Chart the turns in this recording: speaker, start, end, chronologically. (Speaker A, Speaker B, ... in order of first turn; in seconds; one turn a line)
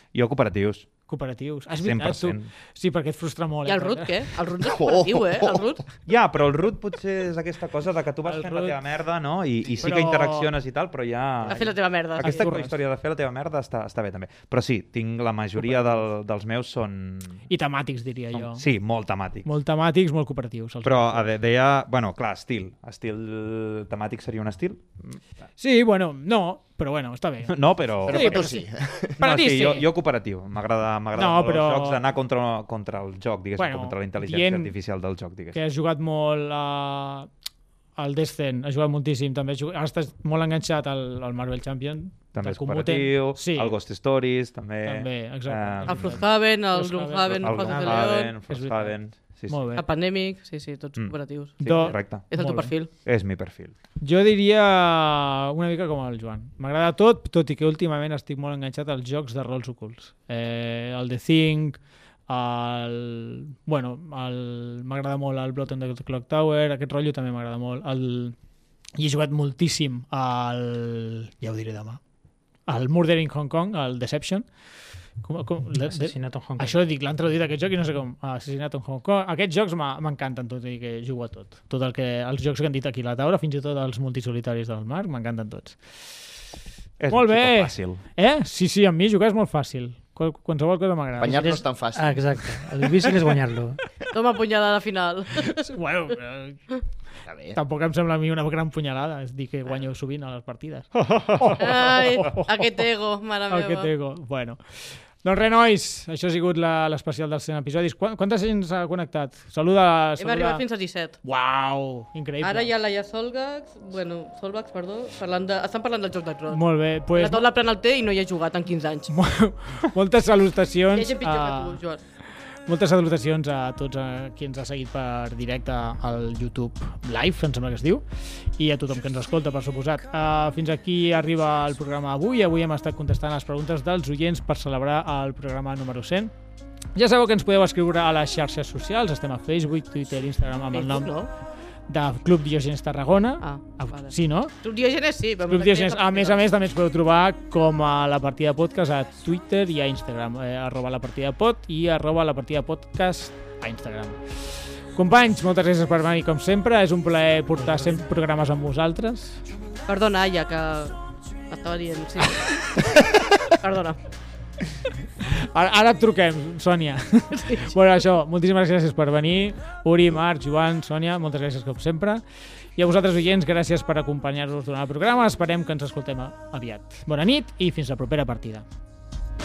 Speaker A: 0.1-0.9
Speaker B: 1.1-4.2
Speaker A: 1.8-2.5
Speaker C: 3.7-5.8
Speaker D: 4.6-5.7
Speaker A: 6.1-17.4
Speaker B: 8.3-8.8
Speaker B: 9.8-10.5
Speaker C: 11.5-12.5
Speaker B: 12.2-12.8
Speaker B: 15.6-16.1
Speaker B: 17.5-18.6
Speaker A: 18.3-19.5
Speaker B: 19.4-21.3
Speaker A: 20.8-25.2
Speaker B: 25.6-28.7
Speaker A: 27.5-28.5
Speaker D: 28.1-29.2
Speaker B: 29.2-29.9
Speaker A: 29.2-35.6
Speaker B: 31.2-32.0
Speaker B: 33.6-34.7
Speaker B: 35.5-37.3
Speaker B: 38.0-43.8
Speaker A: 42.3-46.3
Speaker B: 44.9-49.8
Speaker C: 45.9-48.3
Speaker A: 47.3-49.7
Speaker C: 49.8-52.9
Speaker A: 51.0-52.3
Speaker B: 51.6-52.8
Speaker A: 52.9-53.7
Speaker B: 54.0-68.4
Speaker B: 69.0-72.0
Speaker B: 72.7-74.5
Speaker B: 75.2-86.0
Speaker E: 75.8-76.8
Speaker A: 87.0-88.0
Speaker B: 87.1-91.4
Speaker D: 91.2-92.3
Speaker E: 91.2-93.8
Speaker C: 94.1-95.7
Speaker B: 95.4-96.7
Speaker D: 97.3-97.6
Speaker B: 97.5-102.7
Speaker A: 101.0-101.7
Speaker C: 101.6-103.9
Speaker B: 103.5-110.6
Speaker C: 110.2-111.2
Speaker B: 111.2-112.7
Speaker C: 112.4-119.1
Speaker B: 116.5-117.5
Speaker B: 119.1-121.8
Speaker C: 120.9-122.0
Speaker B: 122.7-128.0
Speaker B: 128.6-136.3
Speaker B: 136.9-141.1
Speaker C: 140.7-141.3
Speaker B: 141.9-144.5
Speaker C: 143.4-146.4
Speaker B: 145.5-159.4
Speaker C: 159.9-161.0
Speaker C: 161.5-164.0
Speaker B: 165.3-172.2
Speaker C: 167.3-167.7
Speaker B: 172.8-178.7